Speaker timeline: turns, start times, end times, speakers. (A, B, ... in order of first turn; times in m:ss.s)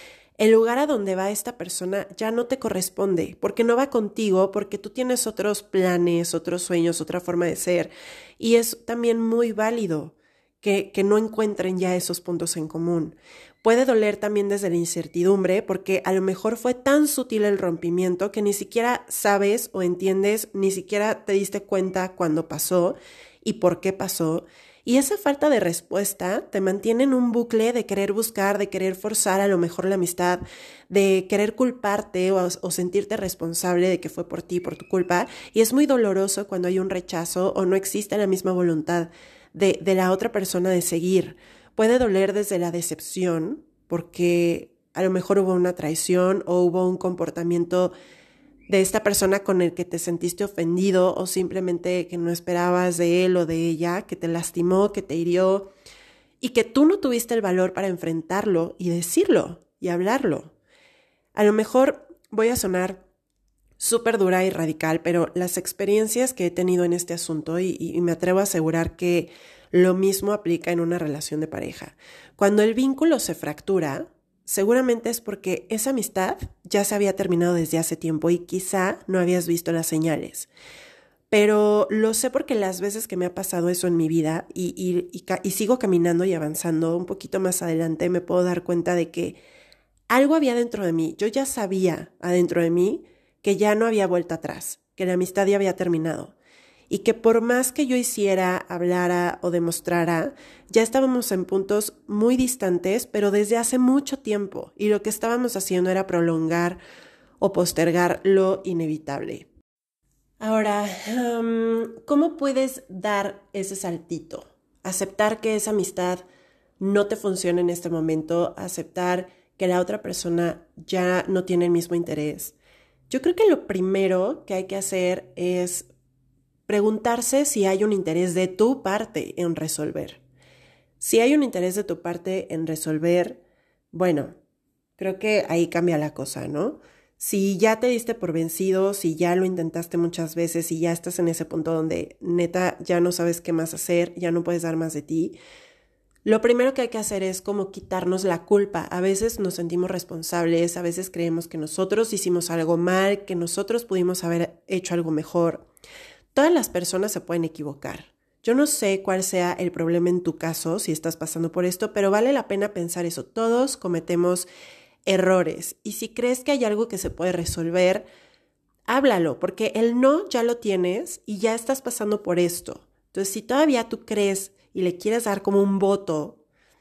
0:00.4-0:47.9 A
0:48.7-0:55.7 A
0:56.4-1:00.5 A
1:01.3-1:03.0 A
1:03.8-1:20.5 A
1:21.3-1:29.4 A
1:30.1-1:36.3 A
1:36.9-1:46.8 A
1:47.4-1:49.5 A
1:50.4-1:56.2 A
1:56.8-2:02.6 A
2:03.1-2:05.9 A
2:06.7-2:10.2 A
2:11.0-2:14.3 A
2:15.0-2:25.4 A
2:26.2-2:35.6 A
2:36.3-2:44.5 A
2:45.0-2:48.0 A
2:48.8-2:56.4 A